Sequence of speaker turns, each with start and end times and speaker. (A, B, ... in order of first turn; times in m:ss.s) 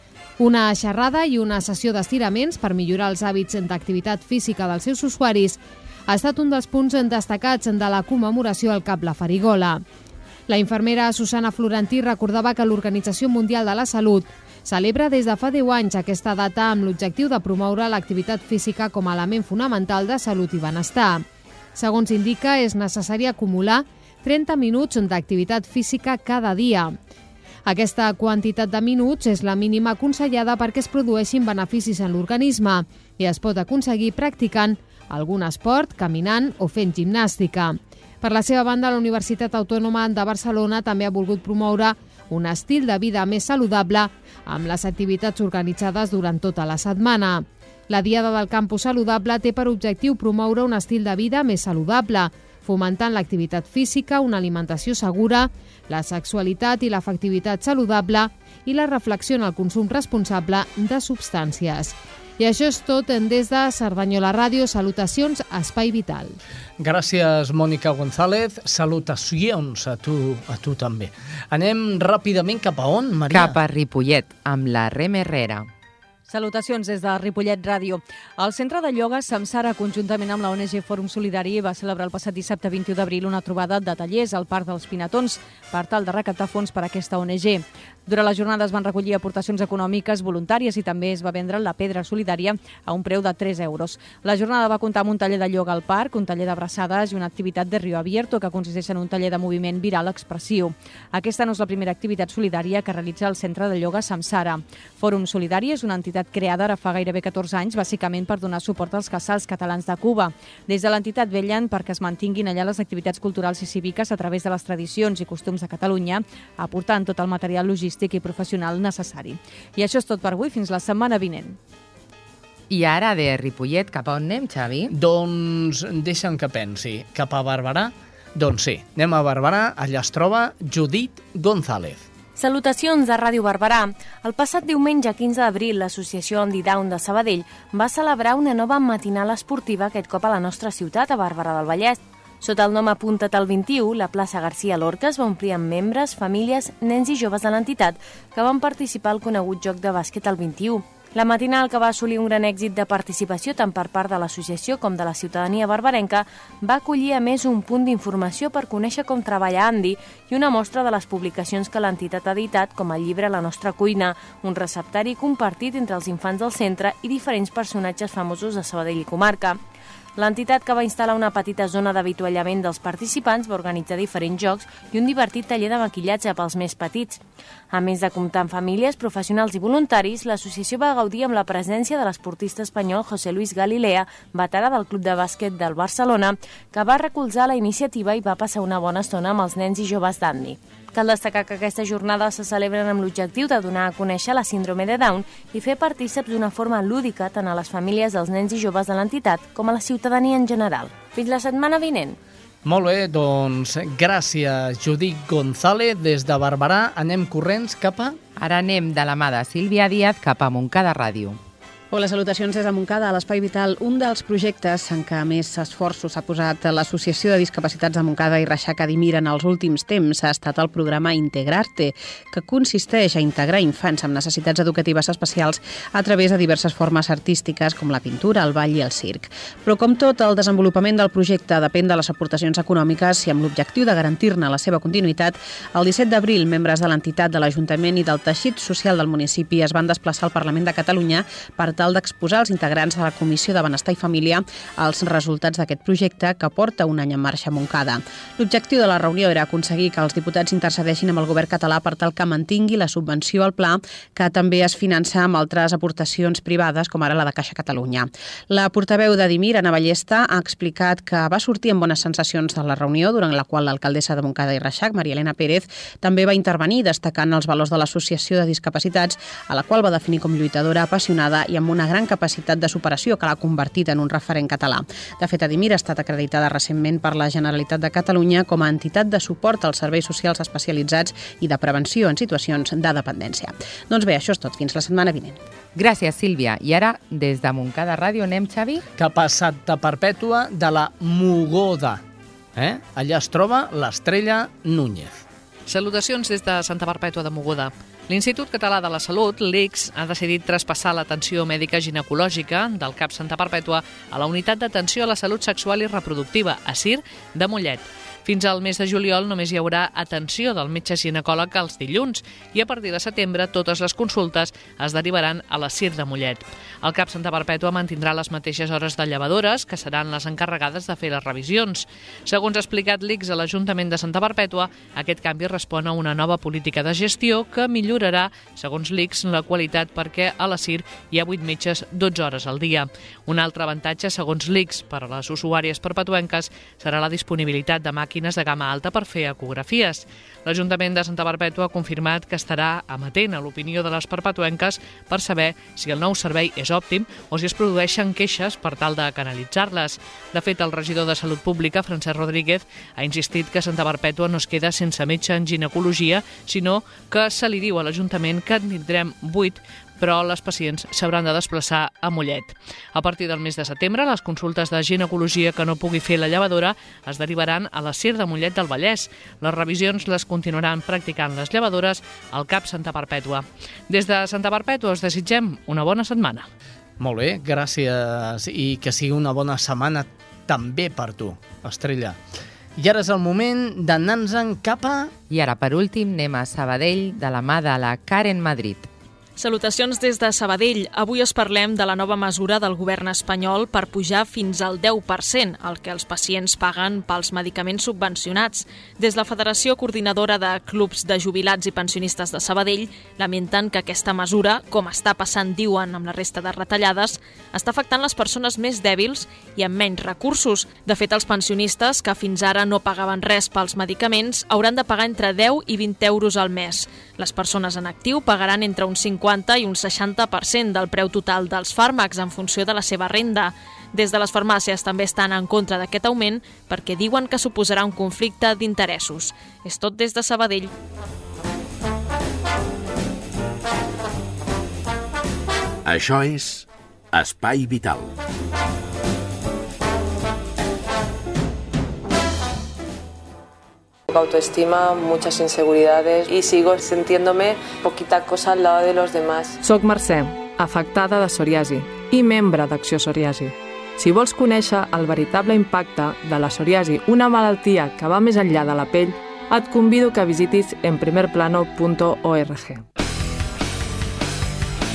0:00.4-0:09.8 A
0:10.5-0:21.2 A
0:21.8-0:27.0 A
0:27.6-1:06.4 A
1:06.8-1:13.6 B
1:13.3-1:15.7 C
1:16.3-2:01.6 D
2:02.7-2:04.9 C
2:04.9-2:12.0 B
2:12.4-2:49.6 E
2:50.2-2:57.2 E
2:57.7-3:22.2 E
3:22.6-3:28.2 B
3:28.4-3:31.4 C
3:31.9-4:45.4 F
4:45.7-4:48.8 C
4:49.0-4:52.0 B
4:52.5-4:55.2 B
4:55.7-6:16.5 G
6:17.0-6:22.2 B
6:22.8-6:25.1 B
6:25.3-6:28.9 C
6:29.4-7:10.7 H
7:15.8-7:18.1 I
7:24.1-7:29.6 J
7:29.6-7:42.8 K